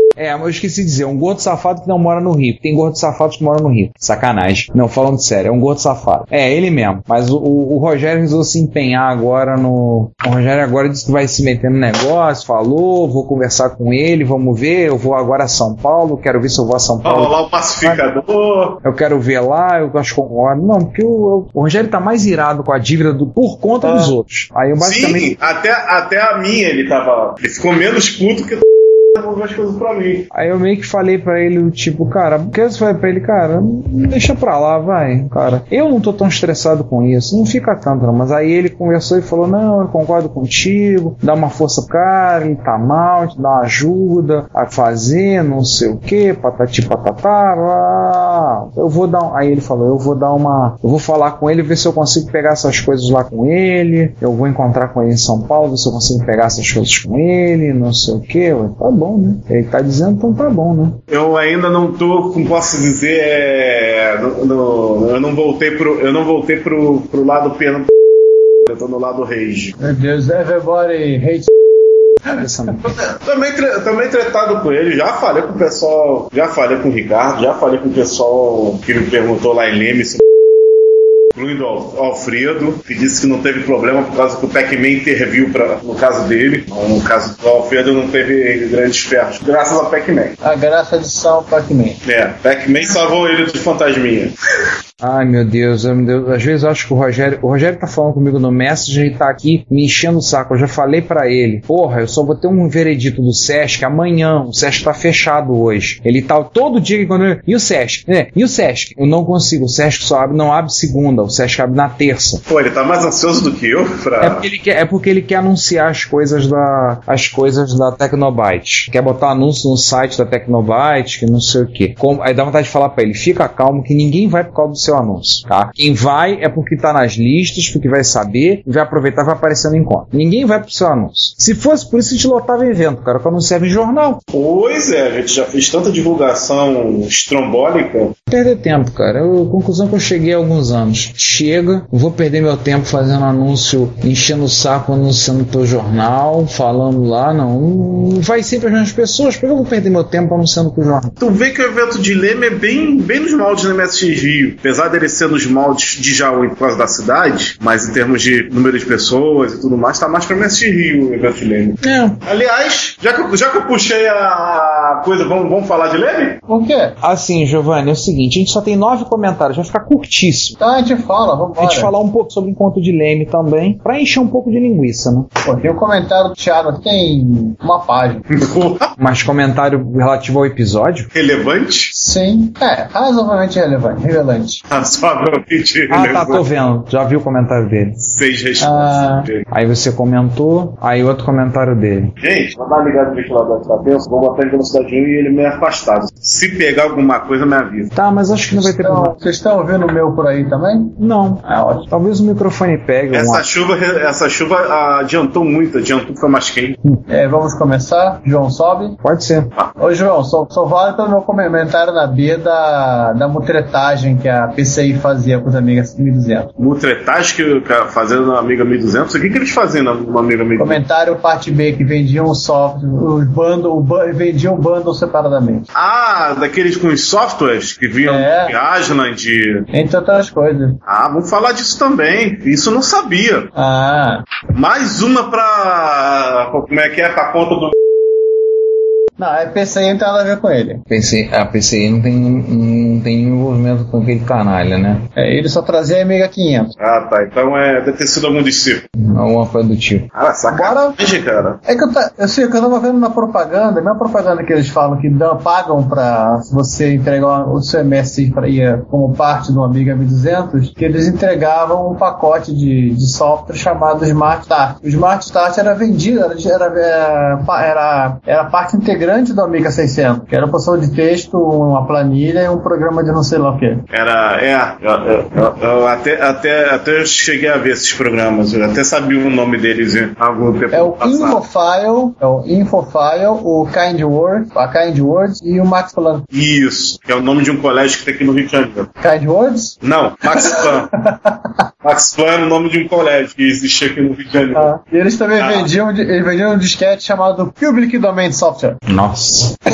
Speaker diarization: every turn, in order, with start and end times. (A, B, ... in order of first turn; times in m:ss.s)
0:00.2-0:18.0 A
0:17.0-0:18.8 B
0:18.8-0:25.3 A
0:24.8-0:28.6 B
0:29.2-0:30.3 B
0:30.3-1:01.0 A
1:01.1-1:07.9 B
1:08.7-1:09.8 B
1:09.8-1:11.5 C
1:12.3-1:12.9 A
1:13.2-1:20.2 B
1:21.4-1:30.4 B
1:30.4-1:32.0 C
1:32.0-1:34.3 B
1:35.0-1:52.4 A
1:52.5-1:54.4 B
1:54.2-2:14.2 A
2:14.3-2:18.2 B
2:18.3-2:31.1 A
2:31.2-2:46.4 B
2:41.8-2:42.2 A
2:46.5-2:47.0 C
2:47.0-2:50.6 A
2:50.6-2:51.9 C
2:51.6-2:55.3 A
2:55.4-2:58.3 C
2:58.3-2:58.9 B
2:59.0-3:01.1 A
3:01.1-3:01.9 B
3:01.9-3:04.6 C
3:04.7-3:06.4 B
3:05.9-3:08.0 A
3:08.0-3:09.4 B
3:08.6-3:09.3 C
3:09.5-3:12.1 A
3:12.2-3:17.9 B
3:18.0-3:19.1 A
3:18.6-3:21.9 C
3:21.0-3:23.4 A
3:23.1-3:26.8 B
3:27.1-3:29.0 C
3:29.0-3:29.5 A
3:29.8-3:36.5 C
3:36.6-3:40.8 B
3:40.6-3:45.7 C
3:45.8-3:49.7 B
3:48.0-3:48.6 C
3:49.7-3:50.8 C
3:50.9-3:53.5 B
3:53.6-3:54.2 C
3:54.5-3:57.7 B
3:59.2-4:00.8 C
4:00.9-4:05.1 A
4:05.2-4:06.7 C
4:06.8-4:08.9 B
4:09.0-4:10.1 A
4:10.1-4:11.6 B
4:10.5-4:11.0 C
4:11.7-4:33.9 C
4:33.9-4:41.4 B
4:40.7-4:46.3 C
4:46.3-4:48.9 B
4:49.0-4:49.8 C
4:49.8-4:50.9 B
4:50.3-4:51.6 C
4:51.8-4:54.7 B
4:54.5-4:58.8 C
4:55.4-4:55.7 B
4:58.9-4:59.5 A